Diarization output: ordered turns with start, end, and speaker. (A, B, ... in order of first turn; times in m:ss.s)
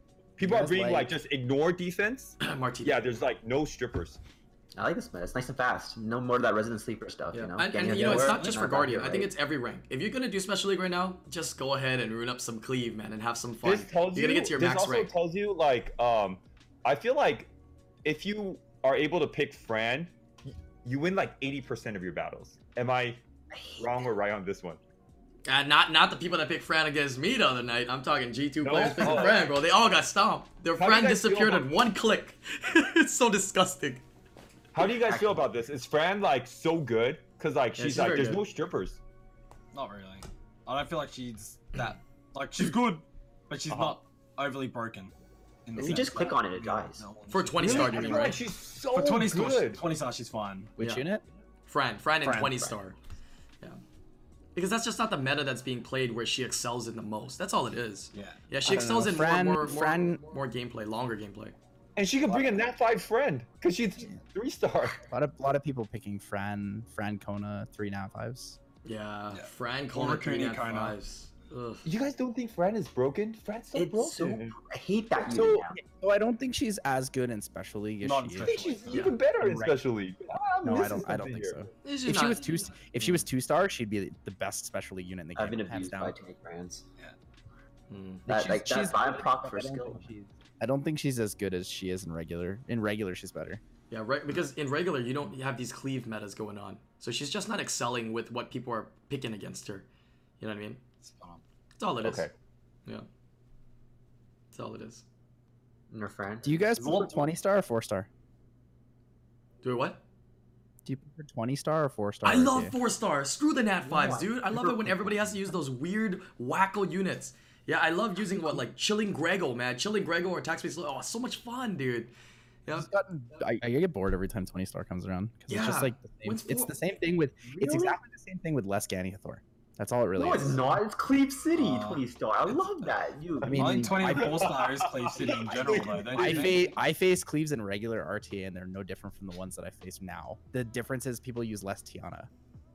0:00.4-0:04.2 A
0:00.4-0:01.1 B
0:02.4-0:03.0 C
0:04.8-0:09.3 D
0:07.3-0:15.1 C
0:07.9-0:08.6 E
0:13.6-0:17.5 A
0:18.0-0:23.2 A
0:23.5-0:24.1 D
0:23.8-0:24.8 A
0:25.5-0:34.0 C
0:28.6-0:29.5 A
0:30.8-0:31.8 A
0:34.7-0:39.0 A
0:34.8-0:35.4 D
0:37.8-0:38.4 C
0:39.7-0:45.1 E
0:43.7-0:44.0 A
0:45.7-0:48.4 E
0:45.8-0:47.0 D
0:47.3-0:48.4 C
0:47.6-0:49.8 A
0:47.9-0:48.2 B
0:48.9-0:50.7 E
0:50.8-0:51.2 B
0:50.8-0:51.1 C
0:51.7-0:53.0 C
0:52.2-0:52.7 E
0:54.6-1:01.6 C
0:58.1-0:58.4 E
0:58.6-1:00.2 B
1:02.0-1:05.0 A
1:05.1-1:08.6 B
1:08.8-1:11.9 C
1:09.3-1:11.0 E
1:11.8-1:14.6 A
1:13.8-1:15.8 D
1:15.2-1:18.6 B
1:18.0-1:19.1 E
1:18.4-1:21.6 A
1:18.9-1:19.2 C
1:19.4-1:19.8 B
1:20.6-1:26.2 B
1:21.8-1:23.2 C
1:25.4-1:26.9 D
1:27.9-1:28.3 C
1:28.3-1:30.1 D
1:28.3-1:33.6 B
1:33.9-1:39.9 C
1:40.4-1:40.8 C
1:41.0-1:41.4 E
1:41.8-1:42.3 C
1:42.0-1:42.3 A
1:44.5-1:45.1 C
1:45.9-1:47.2 D
1:46.4-1:48.1 B
1:46.8-1:47.2 E
1:49.6-1:50.0 C
1:50.8-1:52.8 B
1:52.2-2:02.1 C
1:53.8-1:55.0 D
2:02.8-2:10.8 B
2:05.5-2:06.7 C
2:07.5-2:08.0 D
2:10.2-2:14.2 D
2:11.6-2:13.0 E
2:13.4-2:14.6 B
2:13.5-2:16.6 E
2:14.2-2:16.5 A
2:15.2-2:16.5 D
2:16.2-2:22.3 B